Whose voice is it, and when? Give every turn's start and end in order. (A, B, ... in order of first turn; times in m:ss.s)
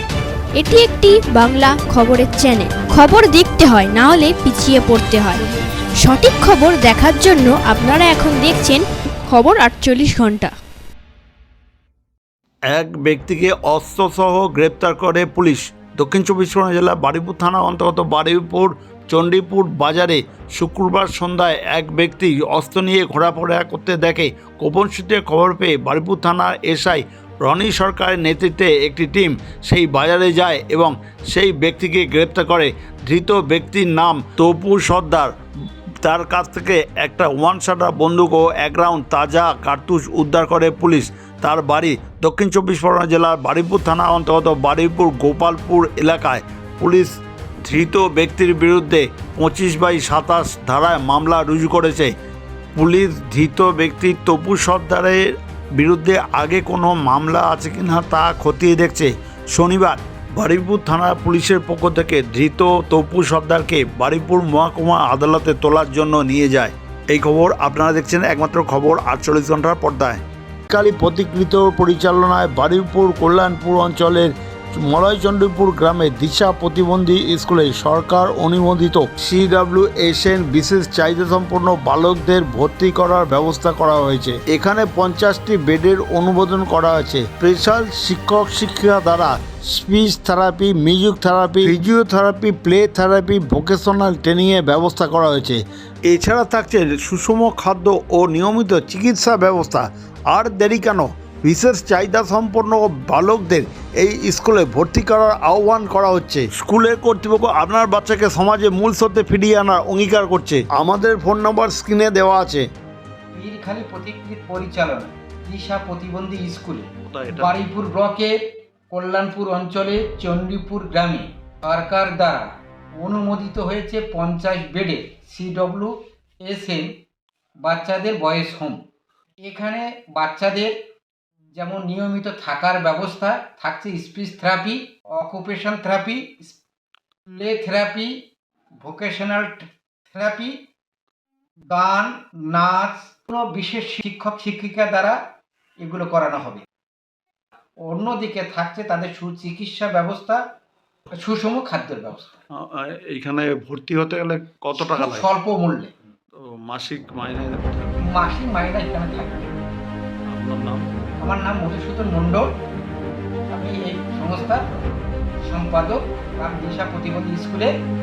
0:00.6-0:05.4 A
0:06.0-0:10.5 A
0:12.7-0:35.3 B
0:36.0-0:52.1 B
0:52.8-0:55.2 B
0:55.8-1:52.6 B
1:53.3-1:58.3 C
1:57.1-1:57.5 B
1:58.9-2:06.9 C
2:07.6-2:08.8 C
2:09.4-2:10.8 C
2:11.5-2:16.6 C
2:17.3-2:18.2 C
2:18.8-2:20.6 C
2:21.7-2:25.2 C
2:25.8-2:26.6 C
2:27.8-2:30.4 C
2:31.1-2:32.4 C
2:32.6-2:35.3 B
2:34.7-2:35.9 C
2:36.4-2:38.1 B
2:38.0-2:39.5 C
2:40.3-2:40.8 B
2:41.2-2:42.5 C
2:43.5-2:44.6 C
2:45.4-2:47.7 C